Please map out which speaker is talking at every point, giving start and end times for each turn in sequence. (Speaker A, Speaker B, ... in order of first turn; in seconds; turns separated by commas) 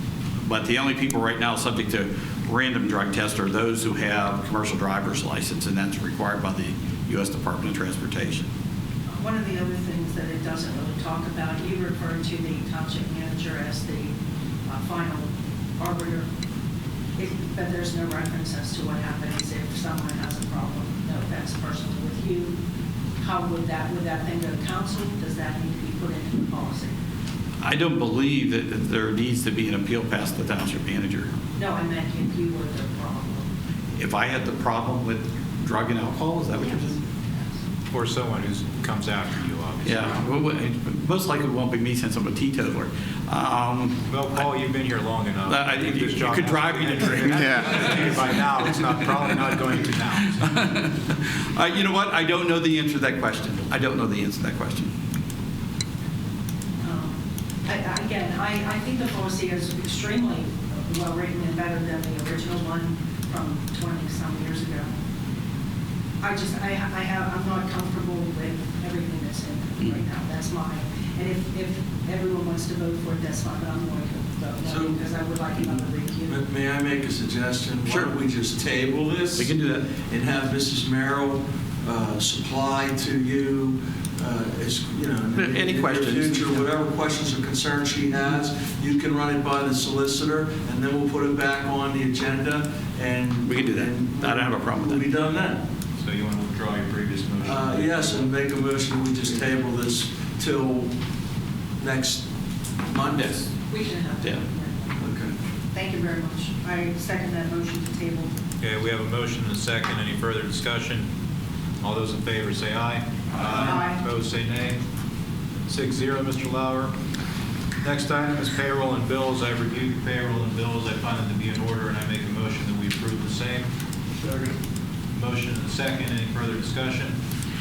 Speaker A: 0.4-8.5, Speaker B: 9.1-14.1, Speaker B: 14.7-16.3, Speaker B: 17.2-22.6, Speaker B: 23.2-26.9, Speaker A: 27.6-31.4, Speaker B: 31.6-33.5, Speaker A: 34.0-37.0, Speaker C: 37.9-40.3, Speaker A: 39.9-44.4, Speaker C: 44.1-50.5, Speaker A: 45.5-54.9, Speaker B: 56.8-64.9, Speaker B: 66.2-76.4, Speaker D: 74.6-75.0, Speaker D: 76.3-95.6, Speaker A: 77.8-78.1, Speaker A: 79.4-79.9, Speaker A: 85.4-86.7, Speaker A: 93.5-95.0, Speaker C: 96.0-98.3, Speaker D: 97.4-100.9, Speaker D: 101.8-102.3, Speaker D: 102.8-103.5, Speaker A: 103.1-103.5, Speaker B: 103.7-105.0, Speaker D: 105.0-105.3, Speaker B: 105.7-108.3, Speaker C: 108.6-111.1, Speaker C: 111.8-114.8, Speaker B: 113.5-114.0, Speaker C: 115.7-116.9, Speaker C: 117.8-123.7, Speaker D: 124.2-124.5, Speaker C: 125.1-127.2